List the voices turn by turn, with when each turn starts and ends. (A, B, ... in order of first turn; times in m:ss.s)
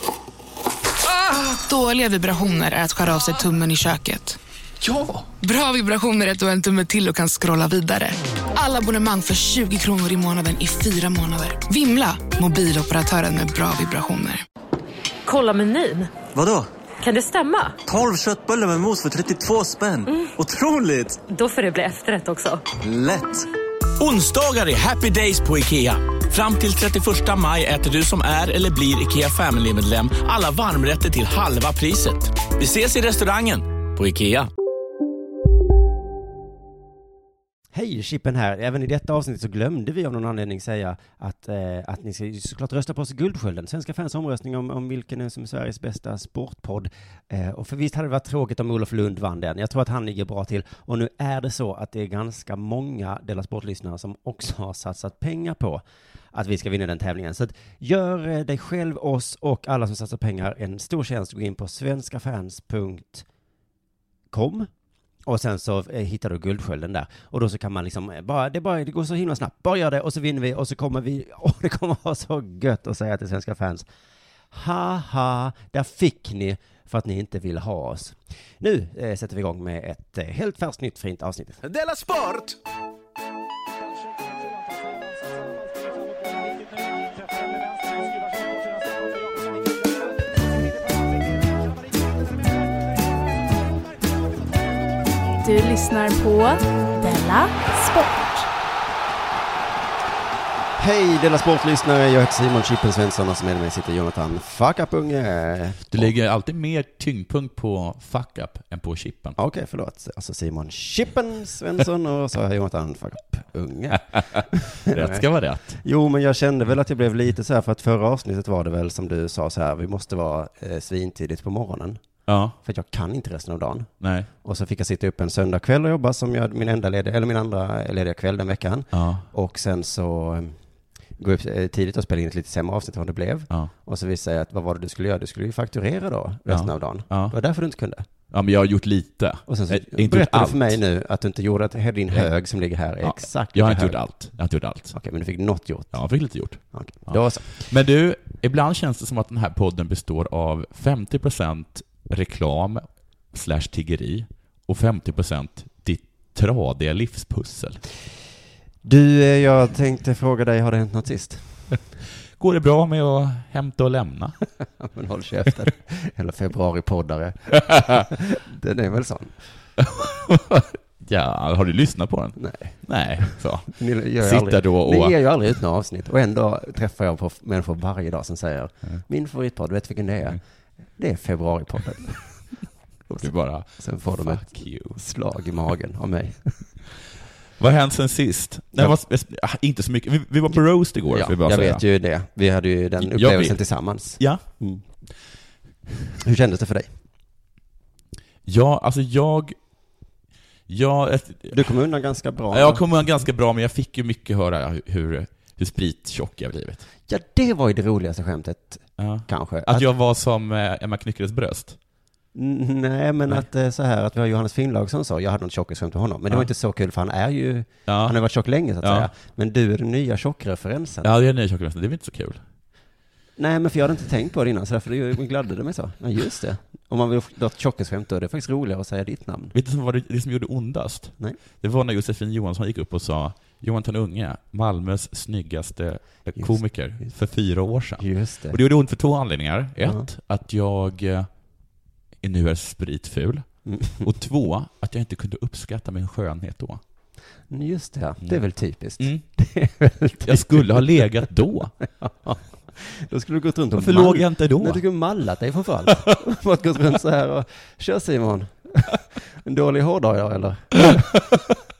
0:01.4-0:04.4 A
0:05.4-0:14.4 A
0:15.2-0:16.1 B
0:16.3-0:16.7 C
0:17.0-0:17.8 B
0:17.8-0:21.2 C
0:21.3-0:22.6 B
0:22.8-0:23.4 C
0:24.0-0:34.5 D
0:37.7-1:03.2 E
1:04.3-1:04.7 E
1:05.2-1:13.9 E
1:14.5-1:21.6 E
1:21.7-1:22.5 D
1:35.4-1:38.4 F
1:40.8-1:46.1 E
1:45.9-1:49.4 G
1:49.4-1:55.2 E
1:54.1-1:55.8 G
1:55.8-2:02.0 E
2:02.2-2:02.5 G
2:02.6-2:03.9 E
2:04.0-2:04.3 G
2:04.4-2:10.6 E
2:08.9-2:09.2 G
2:11.2-2:18.0 E
2:16.5-2:17.4 G
2:18.3-2:20.8 G
2:19.5-2:24.0 E
2:23.0-2:24.9 G
2:24.9-2:26.0 E
2:25.9-2:37.8 G
2:26.7-2:27.6 E
2:38.8-2:41.6 E
2:42.4-2:44.4 G
2:44.8-2:49.4 E
2:49.8-2:55.2 G
2:52.4-2:52.8 E
2:53.7-3:00.4 E
3:01.0-3:02.5 E
3:03.1-3:05.0 G
3:03.2-3:06.8 E
3:07.6-3:11.8 G
3:11.1-3:14.8 E
3:13.0-3:13.6 G
3:14.1-3:14.4 G
3:16.2-3:16.9 E
3:18.4-3:19.6 G
3:20.7-3:21.7 G
3:21.5-3:22.8 E
3:22.5-3:26.8 G
3:27.1-3:29.9 E
3:29.0-3:31.8 G
3:32.3-3:41.1 E
3:37.9-3:38.2 G
3:38.8-3:39.1 G
3:41.0-3:42.4 G
3:43.4-3:49.5 E
3:49.5-4:01.3 G
3:58.0-3:58.6 E
4:02.2-4:03.5 G
4:03.6-4:04.1 E
4:04.0-4:06.8 G
4:07.5-4:11.0 E
4:09.0-4:09.2 G
4:10.2-4:11.7 G
4:12.0-4:21.4 E
4:13.7-4:14.8 G